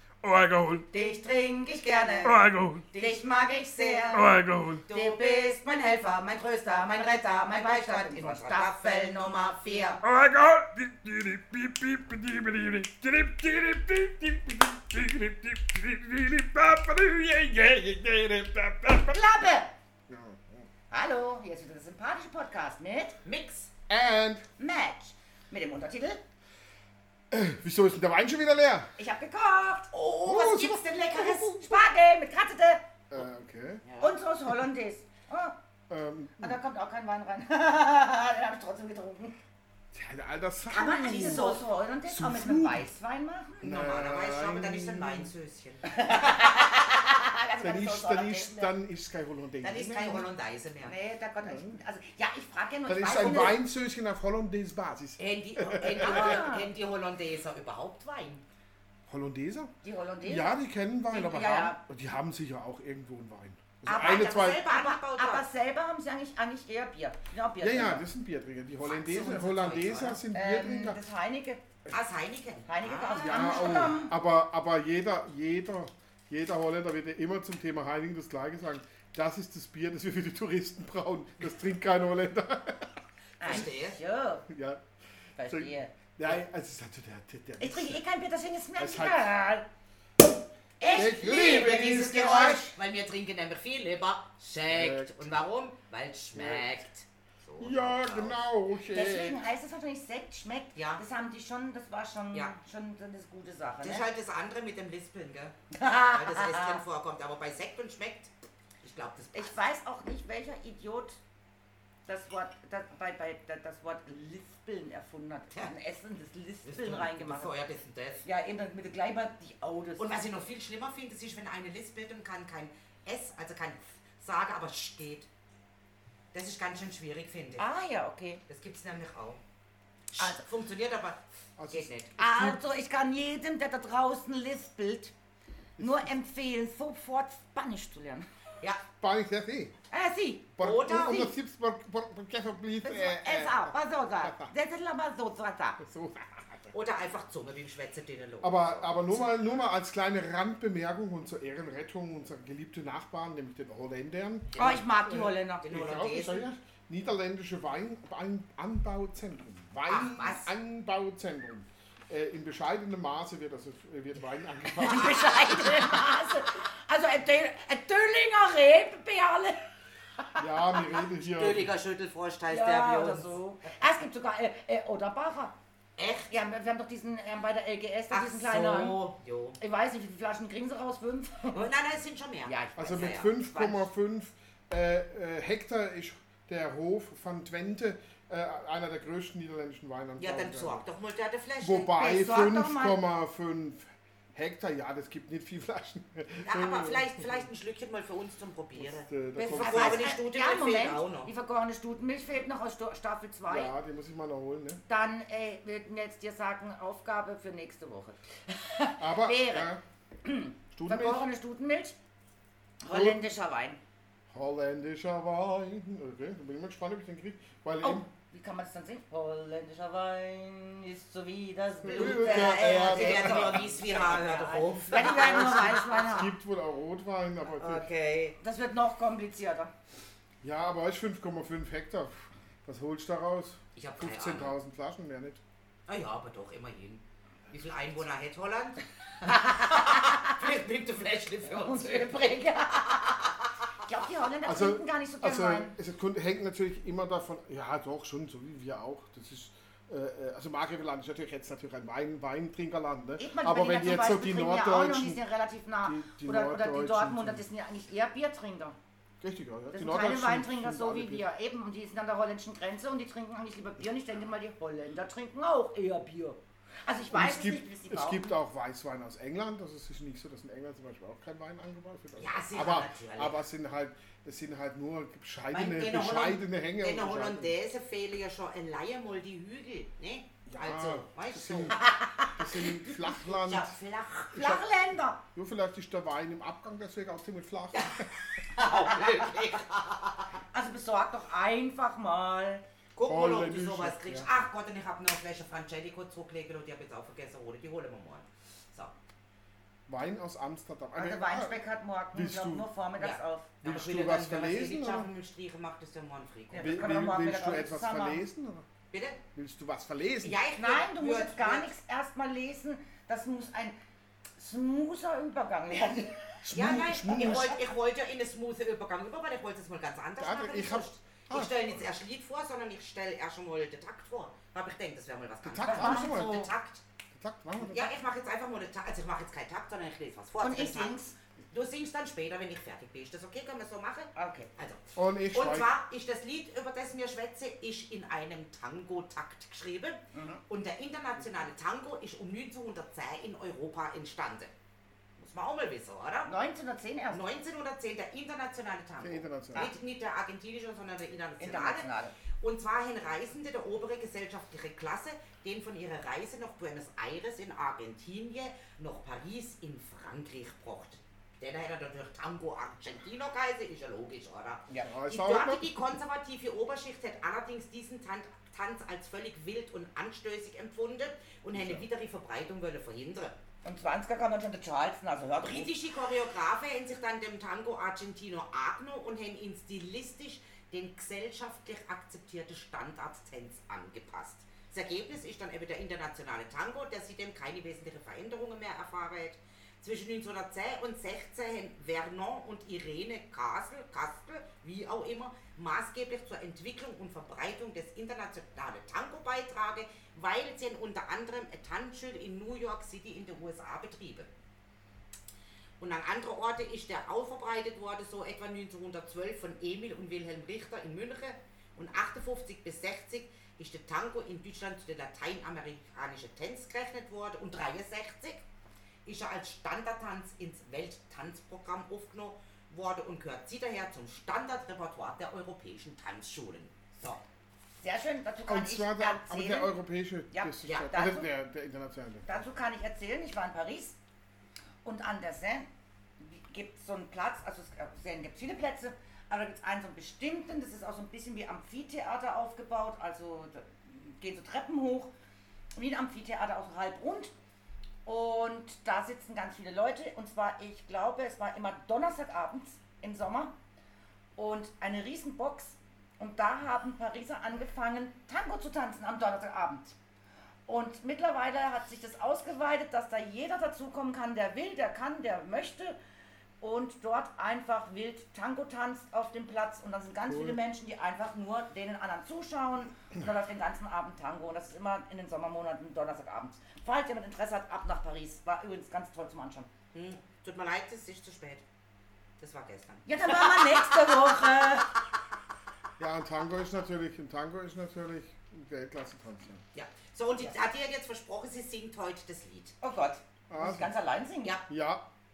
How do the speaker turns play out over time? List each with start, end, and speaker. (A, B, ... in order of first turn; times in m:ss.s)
0:00.2-0:00.9 A
0:00.9-0:02.4 B
0:01.0-0:04.3 C
0:02.2-0:02.9 A
0:03.0-0:04.3 B
0:04.1-0:04.8 A
0:04.8-0:10.0 C
0:04.9-0:10.0 B
0:10.0-0:17.8 A
0:17.4-0:19.0 D
0:19.0-0:19.7 B
0:20.1-0:20.7 D
0:20.9-0:23.2 B
0:23.2-0:23.7 C
0:23.9-0:24.5 D
0:24.6-0:26.2 B
0:27.3-0:28.9 D
0:29.0-0:32.8 B
0:29.9-0:31.8 C
0:30.3-0:30.8 D
0:33.1-0:33.8 D
0:33.9-0:34.1 C
0:34.0-0:35.6 B
0:35.9-0:36.6 D
0:36.4-0:39.4 B
0:39.9-0:42.9 D
0:40.7-0:43.7 B
0:40.9-0:41.7 C
0:43.6-0:45.9 C
0:43.6-0:45.3 D
0:45.9-0:48.7 B
0:47.6-0:50.3 D
0:49.6-0:50.9 C
0:50.8-0:53.6 B
0:51.4-0:51.8 D
0:52.9-0:56.5 D
0:55.2-0:58.4 C
0:56.0-0:56.7 B
0:59.1-1:04.6 D
0:59.8-1:00.6 B
1:01.1-1:01.8 B
1:03.9-1:08.1 B
1:03.9-1:05.4 C
1:07.6-1:11.0 D
1:08.8-1:10.2 C
1:10.3-1:11.6 B
1:11.9-1:14.0 C
1:12.7-1:14.1 B
1:13.2-1:22.9 D
1:23.4-1:24.5 B
1:23.4-1:24.0 C
1:24.5-1:24.8 D
1:25.4-1:25.9 B
1:25.4-1:28.0 D
1:27.6-1:29.7 B
1:28.8-1:29.3 D
1:30.8-1:32.6 B
1:30.8-1:38.4 C
1:30.9-1:32.7 D
1:34.7-1:35.3 D
1:36.3-1:36.7 D
1:37.6-1:39.4 D
1:38.9-1:44.1 B
1:40.8-1:41.0 C
1:43.8-1:45.6 C
1:45.7-1:46.8 B
1:46.1-1:48.3 C
1:48.8-1:49.6 C
1:49.3-1:51.2 B
1:52.1-1:57.5 B
1:56.6-1:58.3 C
1:58.2-2:00.2 B
2:00.0-2:05.3 C
2:06.3-2:07.6 C
2:07.6-2:08.4 B
2:08.5-2:09.4 C
2:10.1-2:11.2 C
2:10.2-2:10.4 B
2:11.6-2:12.6 D
2:11.7-2:12.2 C
2:12.2-2:15.1 B
2:15.8-2:16.1 D
2:15.8-2:18.3 B
2:19.0-2:19.8 D
2:19.9-2:20.6 B
2:20.6-2:24.5 D
2:20.6-2:21.3 C
2:22.8-2:25.8 B
2:25.8-2:26.7 D
2:26.7-2:29.3 C
2:28.4-2:45.8 D
2:34.5-2:34.8 C
2:34.6-2:35.7 B
2:35.6-2:36.5 C
2:39.9-2:40.5 C
2:44.7-2:49.6 B
2:50.4-2:51.8 D
2:51.2-2:53.4 C
2:52.5-2:55.5 B
2:56.0-2:56.3 C
2:56.3-2:59.1 B
2:58.1-2:59.6 C
2:59.6-3:01.7 B
3:01.5-3:03.3 C
3:02.4-3:03.8 B
3:02.8-3:10.8 D
3:10.2-3:11.9 C
3:11.6-3:17.4 D
3:12.0-3:13.0 B
3:16.4-3:21.3 C
3:18.8-3:20.1 D
3:19.4-3:23.7 B
3:23.5-3:24.8 D
3:24.9-3:29.7 B
3:29.0-3:29.8 D
3:30.2-3:32.0 B
3:30.7-3:31.3 D
3:32.8-3:33.8 B
3:32.9-3:33.2 D
3:34.3-3:38.1 D
3:37.8-3:46.3 B
3:41.8-3:43.8 D
3:41.9-3:46.2 C
3:46.1-3:47.9 D
3:47.6-3:48.4 C
3:48.4-3:49.7 B
3:50.4-3:55.4 D
3:53.8-3:54.5 C
3:55.9-4:02.2 C
3:59.3-4:00.2 B
4:01.5-4:03.2 B
4:03.9-4:05.7 B
4:04.4-4:15.2 D
4:13.2-4:18.8 B
4:15.8-4:17.4 D
4:19.2-4:21.2 D
4:19.7-4:28.3 B
4:27.1-4:37.5 D
4:32.2-4:33.4 C
4:35.5-4:41.8 C
4:40.5-4:41.8 D
4:41.8-4:42.4 B
4:42.3-4:43.8 D
4:43.2-4:44.5 C
4:44.3-4:44.6 D
4:44.3-4:45.2 B
4:45.3-4:48.3 D
4:47.7-4:50.3 C
4:50.5-4:52.6 B
4:53.0-4:58.9 C
4:53.0-4:54.3 D
4:59.9-5:01.6 D
5:01.0-5:03.5 B
5:02.1-5:02.7 D
5:03.0-5:06.8 C
5:03.6-5:05.1 D
5:06.5-5:08.2 B
5:06.6-5:08.7 D
5:08.9-5:09.2 C
5:09.4-5:10.4 D
5:10.2-5:11.7 C
5:10.6-5:13.8 B
5:14.4-5:17.6 B
5:16.4-5:17.6 D
5:16.5-5:26.8 C
5:20.2-5:21.7 D
5:25.4-5:26.5 D
5:25.6-5:26.5 B
5:27.1-5:27.9 D
5:27.6-5:31.0 C
5:30.4-5:31.2 B
5:31.5-5:44.5 C
5:34.2-5:34.5 B
5:35.0-5:35.7 D
5:40.1-5:40.4 B
5:45.2-5:46.3 C
5:46.3-5:47.2 B
5:47.1-5:51.9 C
5:49.0-5:49.7 D
5:51.4-5:52.2 B
5:52.4-6:13.4 C
6:04.8-6:05.8 D
6:11.5-6:11.9 D
6:13.6-6:15.7 B
6:15.4-6:44.3 C
6:45.8-6:58.4 C
6:59.0-7:07.2 C
7:07.8-7:09.7 B
7:08.5-7:12.5 D
7:10.3-7:11.3 B
7:10.6-7:10.9 C
7:12.3-7:14.0 B
7:14.8-7:15.7 B
7:16.2-7:25.1 B
7:25.8-7:27.3 B
7:28.0-7:33.6 B
7:34.4-7:40.0 B
7:40.7-7:46.0 B
7:46.6-7:59.7 B
7:50.3-7:50.6 D
7:59.9-8:01.6 C
8:02.4-8:04.1 C
8:03.1-8:04.9 B
8:06.0-8:09.6 D
8:09.8-8:12.8 C
8:12.8-8:14.6 B
8:13.5-8:13.9 D
8:14.7-8:15.0 D